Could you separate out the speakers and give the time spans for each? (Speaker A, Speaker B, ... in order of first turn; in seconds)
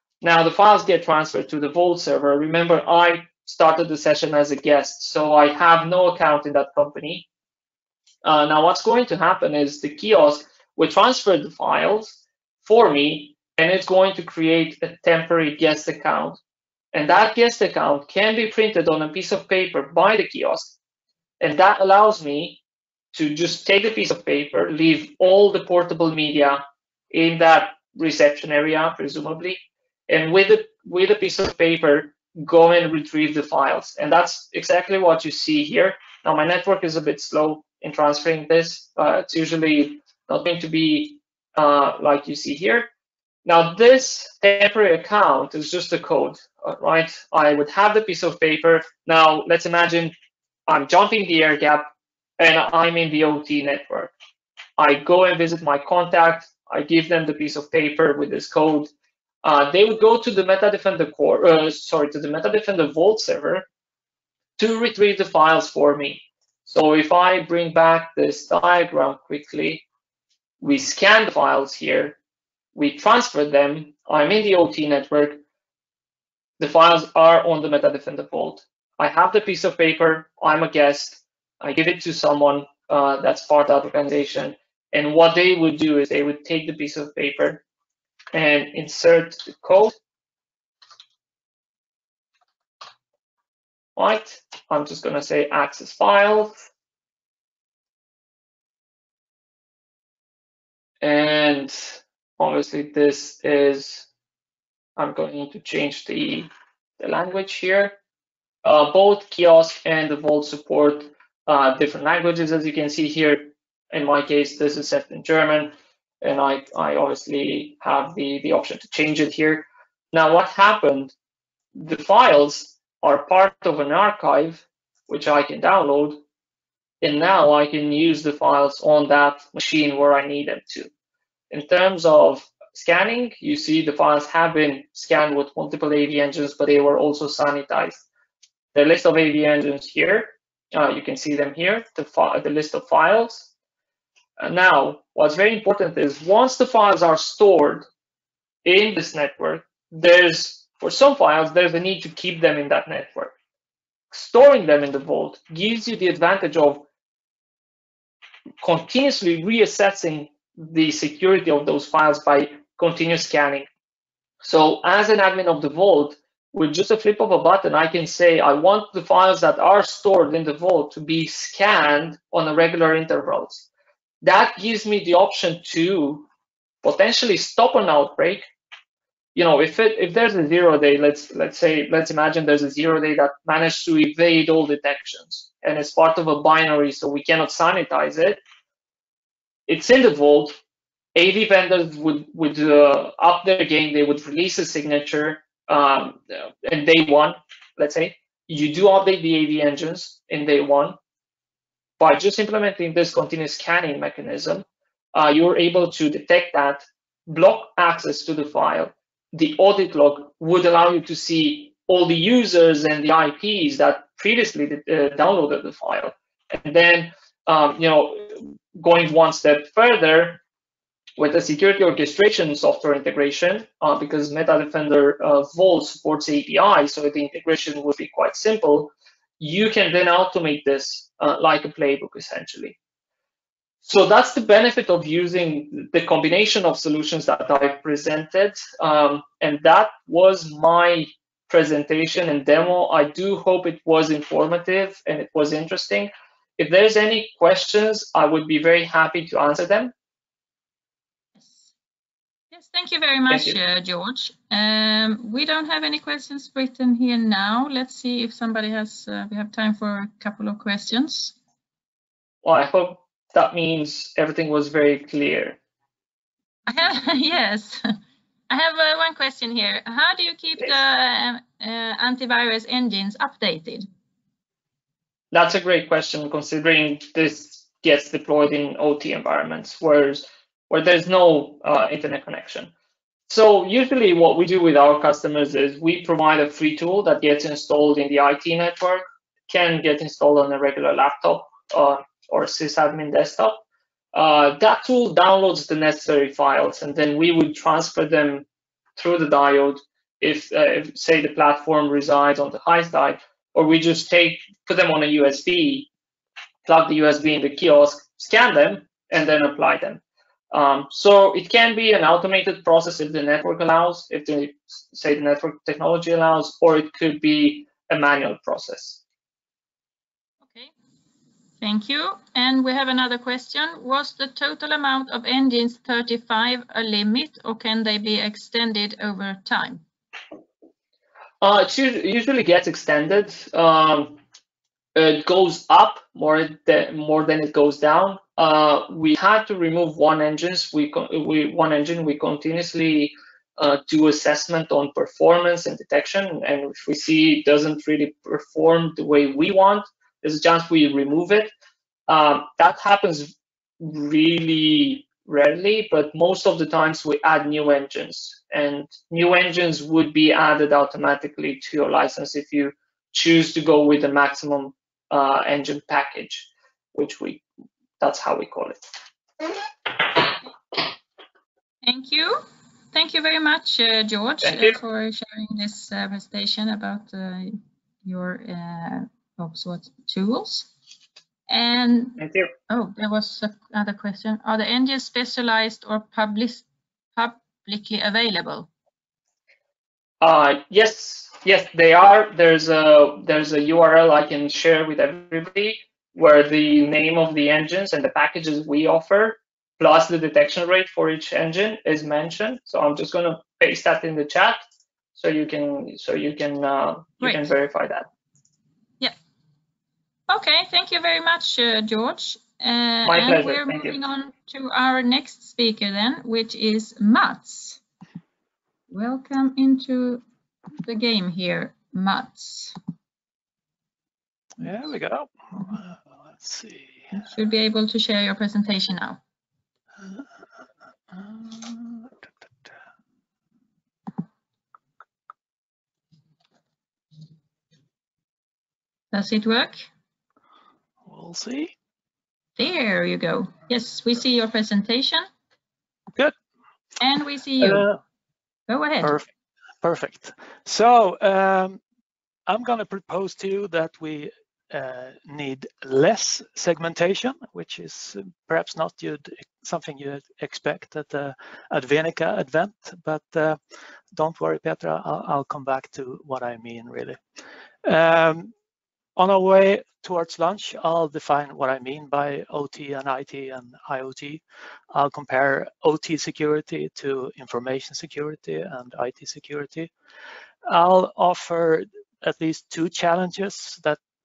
Speaker A: 0.2-7.3, 8.2-16.4, 16.9-20.7, 21.4-22.6, 23.1-42.9, 43.4-50.1, 50.7-51.9, 52.4-54.1, 54.8-58.9, 59.4-63.6, 64.6-69.8, 70.6-72.2, 72.7-75.4, 76.6-87.6, 88.3-90.0, 94.0-96.6, 101.0-104.1, 105.0-108.0, 108.6-121.1, 121.7-126.2, 127.0-130.9, 131.5-138.0, 138.7-143.5, 144.4-147.9, 148.6-153.3, 154.1-156.8, 158.6-163.7, 164.4-173.7, 174.2-176.3, 176.8-178.5, 179.3-188.4, 189.7-190.6, 191.1-201.0, 202.0-220.4, 221.2-232.8, 233.8-249.9, 253.3-253.6, 262.4-265.6, 275.3-282.7, 283.3-293.6, 294.1-298.4, 299.0-305.9, 306.6-310.0, 310.5-319.0, 331.4-334.2, 334.9-351.5, 352.1-367.4, 368.0-368.8, 374.4-374.8, 382.2-382.5, 390.2-408.1, 413.0-414.0
Speaker B: 252.5-261.4, 266.7-268.0, 268.5-273.9, 321.6-329.8, 371.8-380.7, 381.5-386.6, 387.1-388.7, 407.2-407.5, 410.3-417.8, 418.9-420.2, 420.8-422.8, 427.2-429.2, 439.1-439.9, 442.6-445.2, 447.0-447.9, 448.7-449.1
Speaker C: 424.6-427.2, 431.1-432.1, 441.0-441.7, 447.6-448.0, 449.8-451.8, 452.5-463.6, 464.1-467.2, 467.8-468.5, 469.1-479.9, 480.6-484.0